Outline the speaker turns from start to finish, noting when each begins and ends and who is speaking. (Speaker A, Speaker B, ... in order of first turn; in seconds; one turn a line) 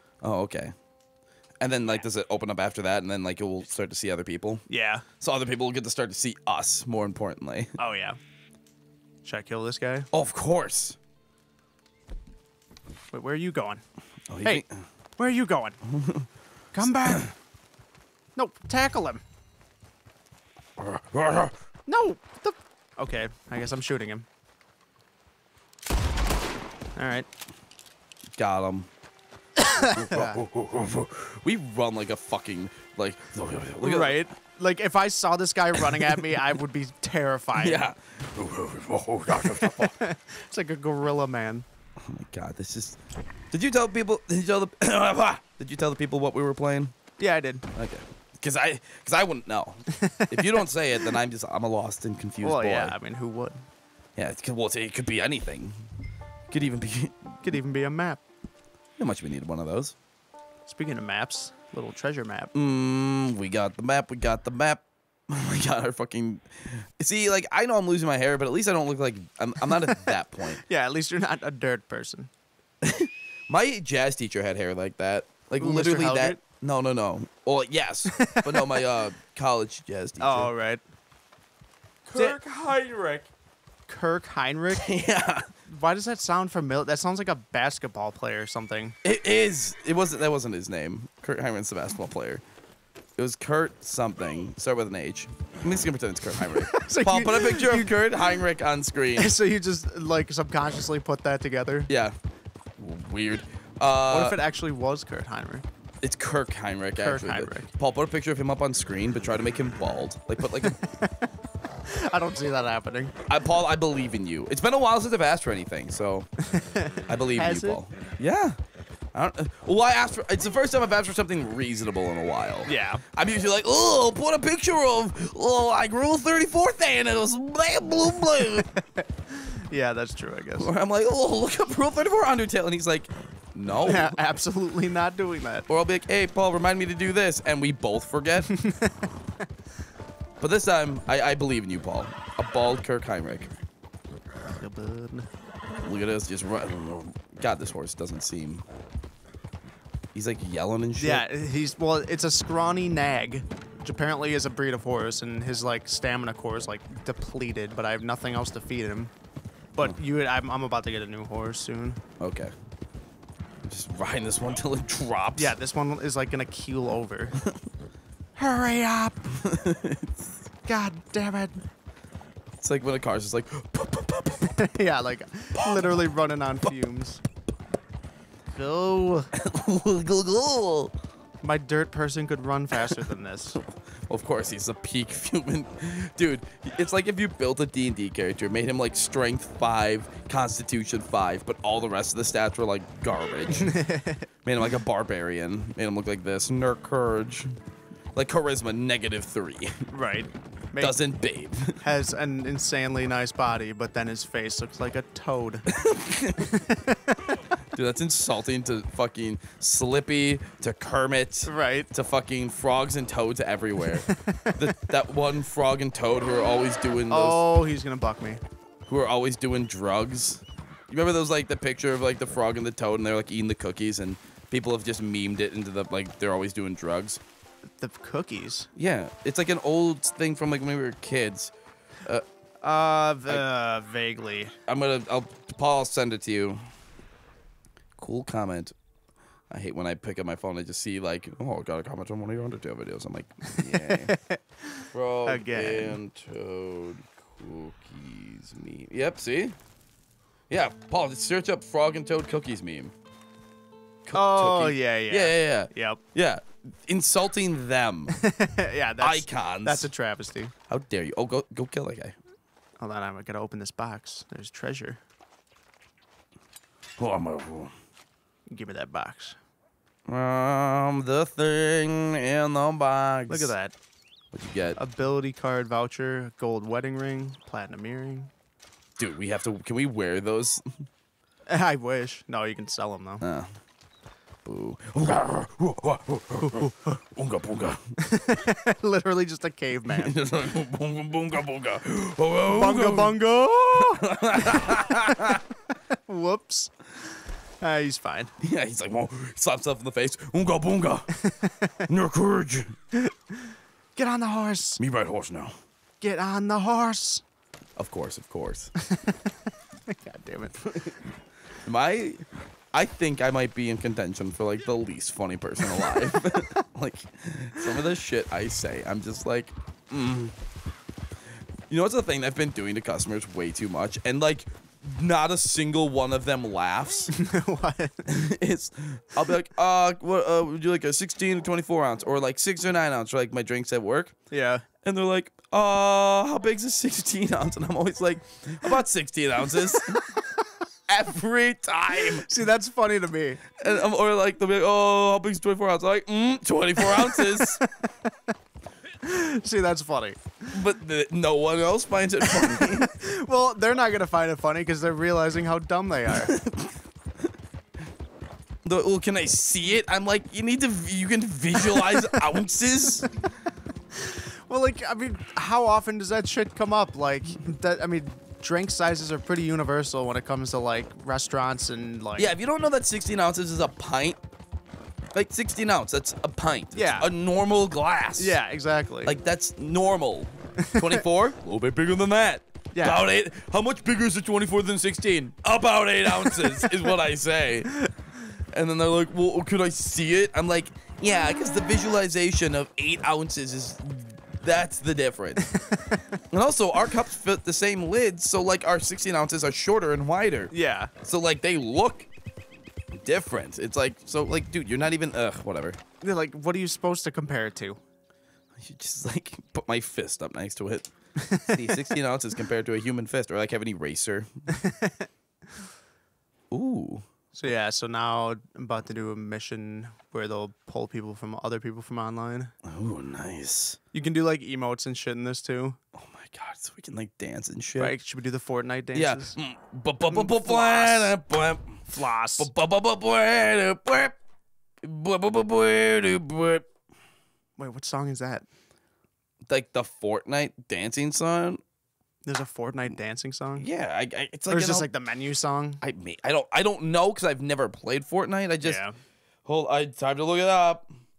Speaker A: 0.2-0.7
Speaker A: 1.6-4.7
Speaker B: 4.7-5.0
Speaker A: 5.2-7.7
Speaker B: 7.8-8.2
Speaker B: 9.2-10.1
Speaker A: 10.1-11.0
Speaker B: 13.1-13.8
Speaker A: 14.3-14.8
Speaker B: 15.2-15.8
Speaker A: 15.9-16.3
Speaker B: 16.7-17.3
Speaker A: 16.8-17.2
Speaker B: 18.4-19.2
Speaker A: 20.8-21.6
Speaker B: 21.9-24.3
Speaker B: 27.0-27.3
Speaker A: 28.4-28.9
Speaker B: 29.6-30.4
Speaker A: 29.8-34.3
Speaker B: 33.8-37.9
Speaker A: 35.8-36.3
Speaker A: 37.5-40.0
Speaker B: 39.4-41.7
Speaker A: 42.0-43.0
Speaker A: 43.5-46.9
Speaker B: 47.2-47.7
Speaker A: 47.7-53.0
Speaker B: 49.9-50.6
Speaker B: 52.4-53.6
Speaker A: 54.2-55.8
Speaker A: 56.5-57.6
Speaker B: 57.4-58.2
Speaker A: 59.0-60.0
Speaker B: 60.7-62.5
Speaker A: 62.5-70.6
Speaker B: 69.7-72.3
Speaker A: 72.8-80.5
Speaker B: 75.6-76.4
Speaker B: 78.1-78.8
Speaker B: 80.2-80.8
Speaker A: 82.1-83.3
Speaker B: 82.1-82.4
Speaker B: 83.9-84.9
Speaker A: 84.7-85.5
Speaker B: 85.7-89.0
Speaker A: 89.0-92.4
Speaker A: 93.2-99.3
Speaker B: 96.4-98.4
Speaker B: 99.2-101.9
Speaker A: 101.9-102.2
Speaker A: 102.8-104.4
Speaker B: 104.1-105.7
Speaker A: 106.0-110.8
Speaker B: 107.0-107.7
Speaker B: 110.5-111.1
Speaker B: 111.9-113.1
Speaker A: 113.3-116.3
Speaker B: 116.5-117.8
Speaker A: 117.1-118.6
Speaker A: 119.1-128.7
Speaker B: 122.7-123.0
Speaker B: 128.7-130.7
Speaker A: 130.6-134.2
Speaker B: 133.8-135.7
Speaker A: 135.7-138.5
Speaker B: 138.5-139.1
Speaker A: 140.4-143.5
Speaker B: 144.6-145.3
Speaker A: 145.8-148.7
Speaker A: 150.1-151.3
Speaker B: 151.0-159.1
Speaker B: 159.7-162.0
Speaker A: 162.2-162.5
Speaker A: 163.6-165.6
Speaker B: 165.3-167.4
Speaker B: 168.4-169.4
Speaker A: 169.4-170.3
Speaker B: 170.7-171.6
Speaker A: 172.6-174.6
Speaker B: 174.4-177.2
Speaker A: 175.6-176.1
Speaker B: 178.5-179.3
Speaker A: 179.3-180.9
Speaker B: 181.4-183.6
Speaker A: 183.6-193.8
Speaker B: 193.6-194.3
Speaker A: 194.4-197.6
Speaker A: 198.1-199.8
Speaker B: 199.9-201.0
Speaker A: 200.8-201.8
Speaker B: 201.8-205.7
Speaker A: 205.7-206.6
Speaker B: 206.4-207.3
Speaker A: 207.7-217.5
Speaker B: 211.5-211.9
Speaker B: 213.9-214.7
Speaker B: 217.1-218.4
Speaker A: 218.9-227.2
Speaker B: 227.8-228.7
Speaker A: 228.8-231.5
Speaker B: 232.6-234.6
Speaker A: 234.7-236.7
Speaker A: 238.0-238.8
Speaker A: 239.5-244.1
Speaker B: 243.5-246.0
Speaker A: 244.9-249.6
Speaker A: 250.5-252.9
Speaker A: 254.1-258.1
Speaker B: 254.1-256.0
Speaker B: 258.1-260.5
Speaker A: 259.0-259.9
Speaker A: 260.7-262.2
Speaker B: 262.8-265.0
Speaker A: 267.0-267.7
Speaker B: 268.5-269.4
Speaker A: 270.1-273.5
Speaker B: 273.3-273.8
Speaker A: 274.3-274.8
Speaker B: 274.8-278.3
Speaker A: 279.0-280.7
Speaker B: 281.5-283.2
Speaker A: 283.2-283.5
Speaker A: 284.4-287.8
Speaker B: 288.0-290.1
Speaker A: 289.9-293.2
Speaker B: 292.5-295.4
Speaker A: 293.8-295.4
Speaker B: 295.9-297.0
Speaker B: 297.6-298.3
Speaker A: 298.4-301.1
Speaker B: 301.2-301.8
Speaker A: 301.9-302.7
Speaker B: 302.9-304.8
Speaker A: 304.8-305.6
Speaker B: 306.0-307.2
Speaker A: 307.8-308.7
Speaker B: 308.8-310.9
Speaker A: 311.6-320.4
Speaker B: 315.7-316.4
Speaker A: 321.7-327.1
Speaker B: 327.1-328.2
Speaker A: 328.1-334.1
Speaker B: 334.3-334.6
Speaker A: 334.8-340.0
Speaker B: 339.7-340.1
Speaker A: 340.9-342.3
Speaker B: 341.9-343.4
Speaker A: 343.6-347.6
Speaker B: 346.8-347.9
Speaker B: 349.0-350.2
Speaker A: 350.5-353.0
Speaker B: 352.2-356.4
Speaker A: 356.3-356.7
Speaker A: 358.6-363.1
Speaker B: 361.7-362.2
Speaker B: 364.0-372.4
Speaker A: 372.2-374.2
Speaker A: 375.1-378.4
Speaker B: 376.7-377.1
Speaker B: 378.2-379.1
Speaker A: 379.1-387.9
Speaker B: 380.6-381.0
Speaker B: 382.7-383.0
Speaker B: 386.1-386.9
Speaker A: 388.5-395.5
Speaker B: 395.4-396.0
Speaker A: 396.3-400.5
Speaker B: 400.5-400.9
Speaker A: 401.0-402.1
Speaker A: 402.9-405.8
Speaker B: 406.0-407.8
Speaker A: 408.6-410.9
Speaker B: 411.2-412.0
Speaker A: 411.4-414.3
Speaker B: 414.5-415.1
Speaker A: 416.5-417.1
Speaker B: 417.3-422.5
Speaker A: 422.7-423.8
Speaker B: 423.9-425.8
Speaker A: 425.9-428.0
Speaker B: 427.8-429.4
Speaker A: 428.9-431.9
Speaker B: 430.1-431.2
Speaker B: 431.9-432.5
Speaker A: 432.4-434.2
Speaker A: 434.8-436.7
Speaker B: 437.6-438.5
Speaker A: 439.5-441.6
Speaker B: 442.2-443.7
Speaker A: 443.6-444.9
Speaker B: 444.5-445.8
Speaker A: 445.8-448.8
Speaker B: 448.6-448.9
Speaker A: 449.5-450.9